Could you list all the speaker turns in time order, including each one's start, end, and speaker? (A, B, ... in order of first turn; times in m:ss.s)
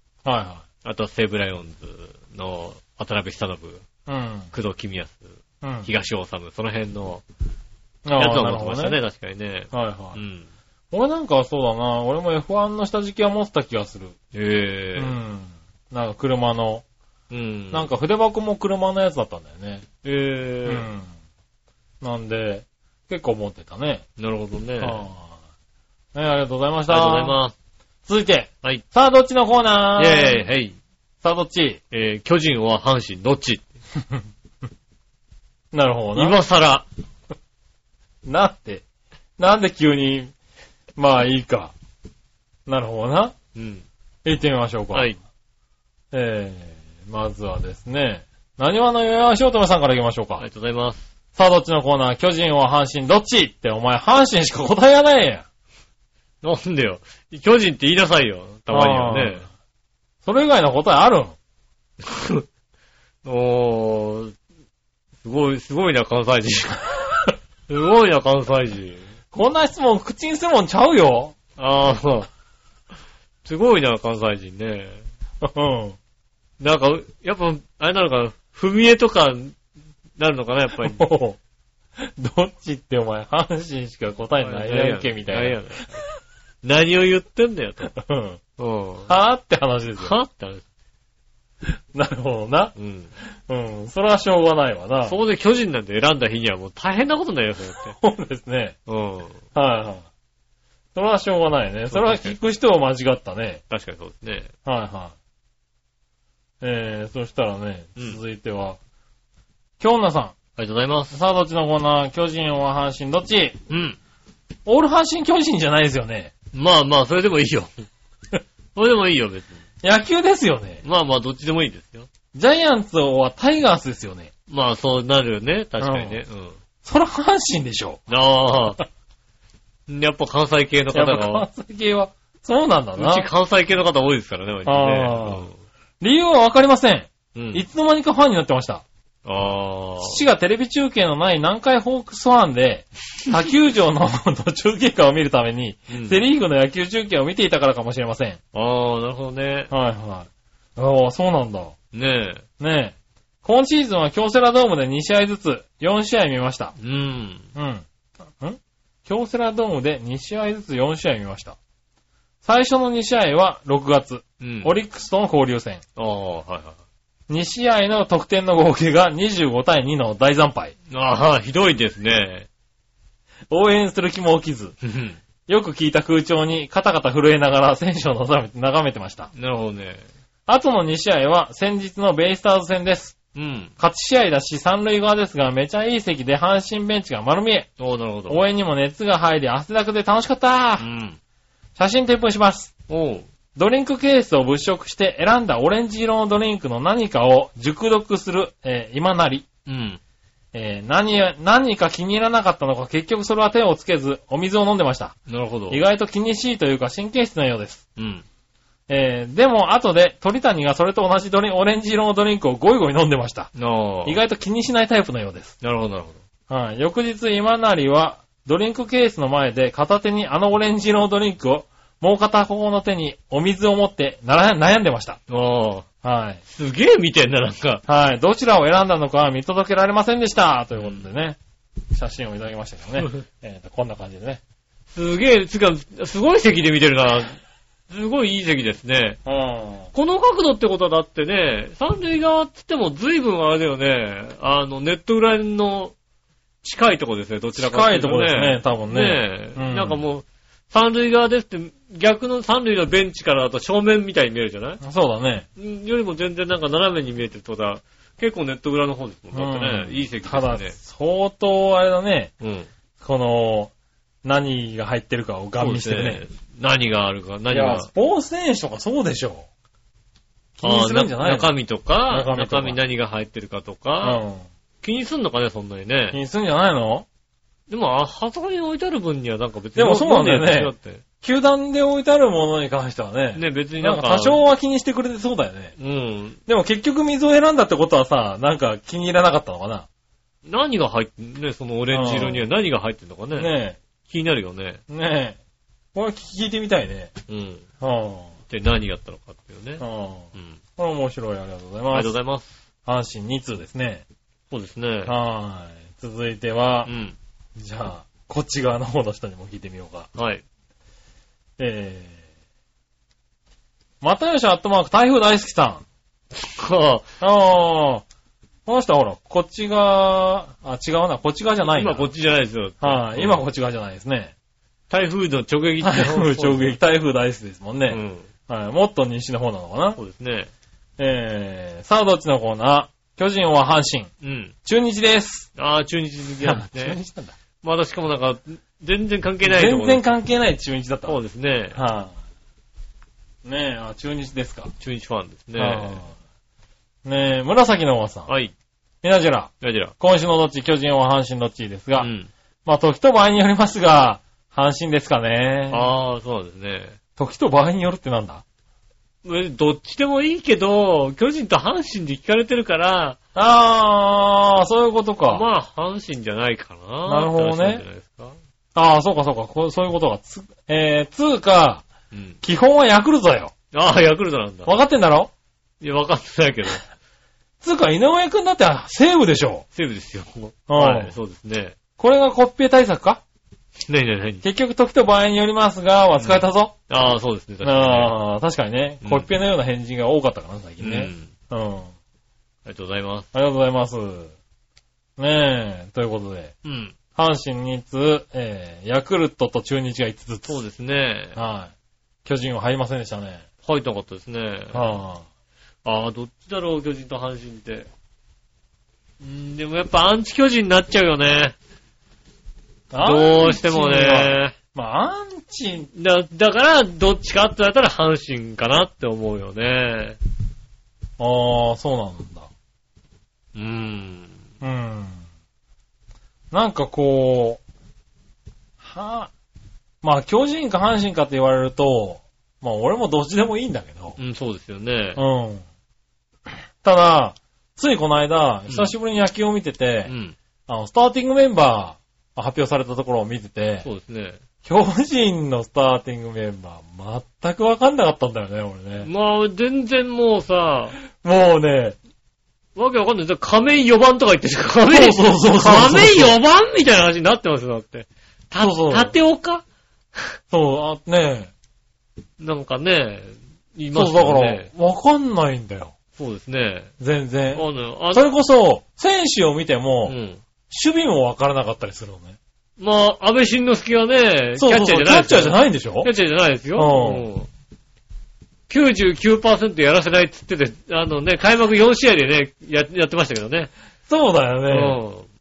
0:00.2-0:00.6 A
0:00.8-0:03.8 B
0:04.1-0:04.5 A
0:04.5-0:05.3 B
0:05.6-0:05.9 A
0:05.8-0:07.2 B
0:08.0-0:09.0 A
0:08.2-0:10.5 B
0:09.7-0:10.2 A
0:10.9-0:14.2 A
0:14.3-0:15.2 B
0:15.0-0:16.8 A
0:17.3-0:17.9 B
0:17.7-0:19.8 A
0:20.0-0:20.9 B
0:20.7-0:21.1 A
0:22.0-0:24.0 A
0:24.2-0:25.0 B
0:24.8-0:25.4 A
0:26.1-0:27.4 A
0:26.9-0:27.6 B
0:28.1-0:30.4 A
0:30.0-0:30.8 B
0:31.2-0:31.8 A
0:31.9-0:33.6 B
0:35.7-0:36.4 A
0:36.1-0:36.9 B
0:38.2-0:38.8 A
0:39.4-0:40.3 A
0:41.0-0:41.7 A
0:42.7-0:43.4 A
0:43.6-0:43.8 B
0:44.2-0:45.2 A
0:44.9-0:45.2 B
0:46.1-0:50.4 A
0:50.4-0:51.1 B
0:51.4-0:55.4 A
0:56.4-0:59.5 B
0:58.7-0:59.4 A
1:00.2-1:01.4 A
1:02.0-1:02.4 B
1:03.2-1:04.4 B
1:05.2-1:07.0 B
1:07.7-1:09.1 B
1:09.3-1:11.4 A
1:11.6-1:12.3 B
1:13.4-1:15.0 B
1:15.4-1:16.0 A
1:16.6-1:19.6 B
1:20.2-1:21.0 B
1:20.8-1:21.4 A
1:22.0-1:25.6 A
1:24.4-1:26.0 B
1:26.6-1:28.0 B
1:27.9-1:28.4 A
1:28.6-1:29.1 B
1:29.1-1:30.2 A
1:30.0-1:30.6 B
1:31.6-1:32.7 A
1:32.8-1:33.1 B
1:33.5-1:35.2 A
1:35.0-1:38.0 B
1:37.9-1:38.8 A
1:38.9-1:39.4 B
1:39.6-1:40.0 A
1:41.0-1:43.6 A
1:41.9-1:42.4 B
1:43.7-1:44.5 B
1:44.7-1:45.1 A
1:46.6-1:48.8 A
1:49.8-1:50.4 A
1:50.6-1:51.2 B
1:51.1-1:53.6 A
1:53.7-1:54.0 B
1:54.7-1:56.3 A
1:56.5-1:57.7 B
1:58.8-1:59.6 B
1:59.8-2:00.8 A
2:00.8-2:02.1 B
2:02.3-2:04.3 A
2:04.5-2:06.6 B
2:05.8-2:06.2 A
2:06.8-2:08.1 A
2:08.1-2:08.8 B
2:09.9-2:11.5 B
2:10.9-2:13.3 A
2:13.0-2:15.6 B
2:14.7-2:15.5 A
2:16.0-2:18.8 A
2:17.4-2:17.6 B
2:19.2-2:20.2 B
2:20.0-2:28.4 A
2:25.9-2:26.2 B
2:28.5-2:29.7 B
2:29.7-2:31.8 A
2:31.9-2:32.4 B
2:32.6-2:36.8 A
2:36.8-2:37.5 B
2:37.6-2:37.8 A
2:38.4-2:41.6 A
2:42.4-2:45.8 A
2:44.4-2:44.7 B
2:46.0-2:46.8 B
2:47.3-2:50.7 A
2:50.9-2:52.5 B
2:53.5-2:54.8 A
2:54.8-2:55.2 B
2:55.5-2:59.3 A
2:59.3-3:00.0 B
3:00.5-3:03.2 A
3:03.4-3:03.7 B
3:03.8-3:07.7 A
3:07.8-3:08.4 B
3:08.3-3:10.9 A
3:10.8-3:11.2 B
3:11.8-3:12.7 A
3:12.9-3:13.3 B
3:13.6-3:19.5 A
3:19.7-3:20.0 B
3:20.5-3:25.2 A
3:25.3-3:25.8 B
3:25.7-3:27.8 A
3:28.0-3:28.2 B
3:28.9-3:33.5 A
3:33.6-3:34.2 B
3:34.0-3:35.6 A
3:35.6-3:36.2 B
3:36.5-3:45.2 A
3:45.3-3:45.9 B
3:46.0-3:46.4 A
3:46.5-3:47.8 B
3:47.9-3:51.4 A
3:50.8-3:51.0 B
3:51.9-3:54.4 A
3:54.9-3:57.4 B
3:57.9-3:59.2 B
3:59.2-3:59.9 A
3:59.9-4:06.0 B
4:06.6-4:14.8 B
4:07.6-4:10.0 A
4:14.8-4:15.5 A
4:15.6-4:20.8 B
4:19.3-4:22.3 A
4:22.4-4:22.7 B
4:23.0-4:23.7 A
4:24.2-4:26.2 A
4:25.6-4:27.9 B
4:27.5-4:29.5 A
4:30.6-4:31.5 A
4:30.6-4:34.2 B
4:32.1-4:32.8 A
4:34.0-4:34.5 A
4:34.8-4:36.2 B
4:36.1-4:37.1 A
4:37.7-4:41.0 B
4:39.8-4:45.7 A
4:43.4-4:44.4 B
4:45.8-4:46.4 B
4:46.5-4:49.9 A
4:50.4-4:54.8 B
4:51.9-4:52.5 A
4:53.4-4:53.8 A
4:54.9-4:55.4 A
4:55.9-4:57.1 A
4:57.3-4:57.7 B
4:57.8-4:58.3 A
4:58.5-5:00.6 B
4:59.8-5:02.1 A
5:01.9-5:02.6 B
5:02.9-5:04.0 A
5:04.5-5:05.2 B
5:05.1-5:06.9 A
5:06.9-5:07.2 B
5:07.6-5:10.1 A
5:10.2-5:10.4 B
5:11.6-5:12.2 A
5:14.0-5:15.8 A
5:16.3-5:17.1 B
5:17.2-5:18.0 A
5:18.7-5:22.1 A
5:21.7-5:23.4 B
5:22.8-5:24.3 A
5:24.9-5:26.8 B
5:25.8-5:30.0 A
5:27.9-5:28.3 B
5:30.0-5:30.5 B
5:31.0-5:34.1 A
5:34.2-5:34.5 B
5:34.6-5:35.5 A
5:35.6-5:37.0 B
5:36.4-5:37.3 A
5:37.6-5:40.0 B
5:39.4-5:41.2 A
5:41.1-5:41.8 B
5:41.7-5:42.1 A
5:43.4-5:44.7 A
5:44.8-5:46.0 B
5:45.6-5:46.1 A
5:47.0-5:48.3 A
5:48.3-5:48.5 B
5:49.0-5:52.1 A
5:49.6-5:49.9 B
5:52.0-5:52.3 B
5:52.7-5:55.9 A
5:55.7-5:57.0 B
5:57.2-5:58.4 A
5:59.2-6:03.2 B
6:03.4-6:05.4 A
6:05.3-6:08.4 B
6:07.1-6:07.8 A
6:08.8-6:11.9 A
6:12.1-6:12.4 B
6:12.4-6:13.5 A
6:13.7-6:14.8 B
6:14.7-6:15.3 A
6:15.8-6:16.8 B
6:17.6-6:19.6 A
6:19.7-6:21.8 B
6:20.7-6:21.1 A
6:22.0-6:23.2 A
6:23.9-6:24.4 B
6:24.4-6:26.8 A
6:26.2-6:28.2 B
6:27.6-6:31.9 A
6:29.0-6:29.3 B
6:30.8-6:31.3 B
6:32.7-6:33.3 B
6:33.3-6:34.3 A
6:35.2-6:36.5 A
6:36.6-6:37.0 B
6:37.2-6:40.6 A
6:40.5-6:41.4 B
6:41.4-6:41.7 A
6:42.2-6:43.4 A
6:43.6-6:45.0 B
6:44.7-6:45.2 A
6:45.8-6:47.9 B
6:49.2-6:51.6 B
6:52.9-6:55.9 A
6:53.0-6:54.6 B
6:55.9-7:00.2 B
7:01.2-7:02.5 A
7:03.6-7:04.4 B
7:04.6-7:05.2 A
7:06.5-7:07.6 A
7:08.8-7:09.3 A
7:10.0-7:14.2 A
7:14.2-7:15.2 B
7:15.2-7:15.6 A
7:16.5-7:20.1 A
7:18.7-7:18.9 B
7:20.1-7:20.4 B
7:20.7-7:23.9 A
7:23.8-7:24.4 B
7:24.6-7:29.1 A
7:29.0-7:31.0 B
7:31.1-7:32.0 A
7:32.8-7:39.6 B
7:34.9-7:36.4 A
7:38.6-7:39.2 A
7:40.5-7:41.5 A
7:42.4-7:44.7 B
7:43.9-7:45.9 A
7:46.2-7:46.9 B
7:47.0-7:50.2 A
7:47.5-7:48.3 B
7:50.1-7:50.4 B
7:50.7-7:52.4 A
7:52.8-7:57.5 B
7:54.6-7:56.1 A
7:56.8-7:57.3 A
7:58.7-8:03.7 B
8:04.1-8:05.0 A
8:04.7-8:05.3 B